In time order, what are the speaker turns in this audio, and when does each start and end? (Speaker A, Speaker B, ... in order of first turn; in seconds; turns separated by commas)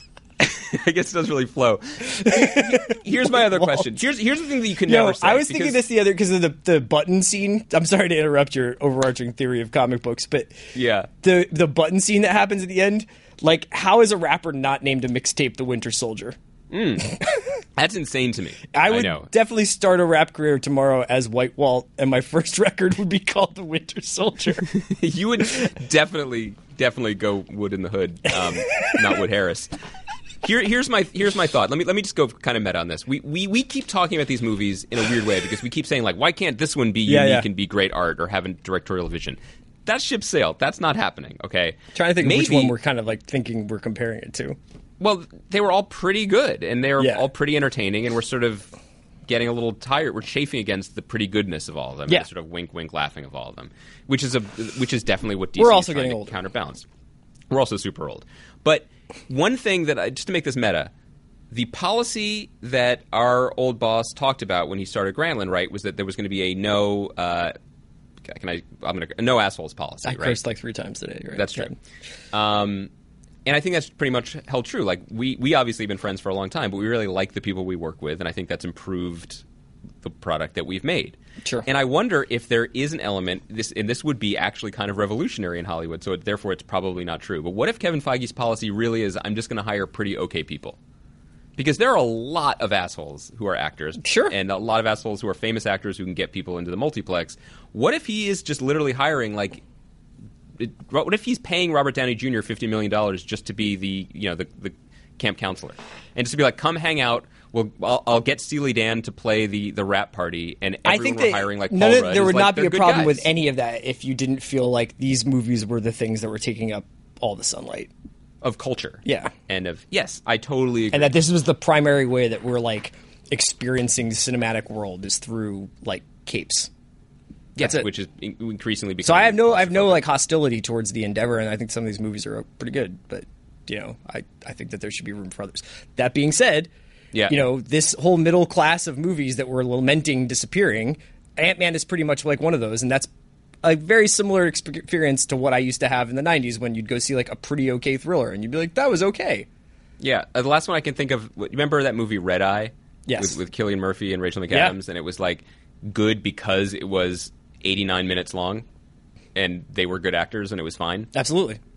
Speaker A: 0.4-5.8, Speaker B: 2.2-3.9, Speaker B: 4.9-10.6, Speaker A: 10.7-11.1, Speaker B: 11.2-16.4, Speaker A: 16.7-17.2, Speaker A: 17.8-19.3, Speaker B: 18.7-24.7, Speaker A: 24.7-29.7, Speaker A: 30.4-42.8, Speaker B: 37.1-37.5, Speaker B: 42.0-44.6, Speaker A: 45.0-48.7, Speaker B: 47.0-47.3, Speaker A: 49.3-56.9, Speaker B: 55.6-56.4, Speaker A: 57.5-60.9, Speaker A: 61.5-67.5, Speaker A: 68.2-70.4, Speaker B: 70.0-71.8, Speaker A: 71.3-71.7, Speaker A: 72.3-72.9, Speaker A: 73.5-79.5, Speaker A: 80.0-90.8, Speaker A: 91.6-99.6, Speaker B: 94.0-94.3, Speaker A: 100.6-113.3, Speaker B: 110.8-117.9, Speaker A: 118.4-121.1, Speaker B: 119.0-119.3, Speaker B: 120.9-126.7, Speaker A: 127.6-130.0, Speaker B: 127.6-127.9, Speaker B: 129.0-136.7, Speaker A: 137.1-137.4, Speaker B: 137.3-143.1, Speaker B: 143.6-149.5, Speaker A: 150.0-158.7, Speaker B: 153.1-153.4, Speaker B: 154.5-154.8, Speaker A: 159.3-161.1, Speaker B: 161.1-161.6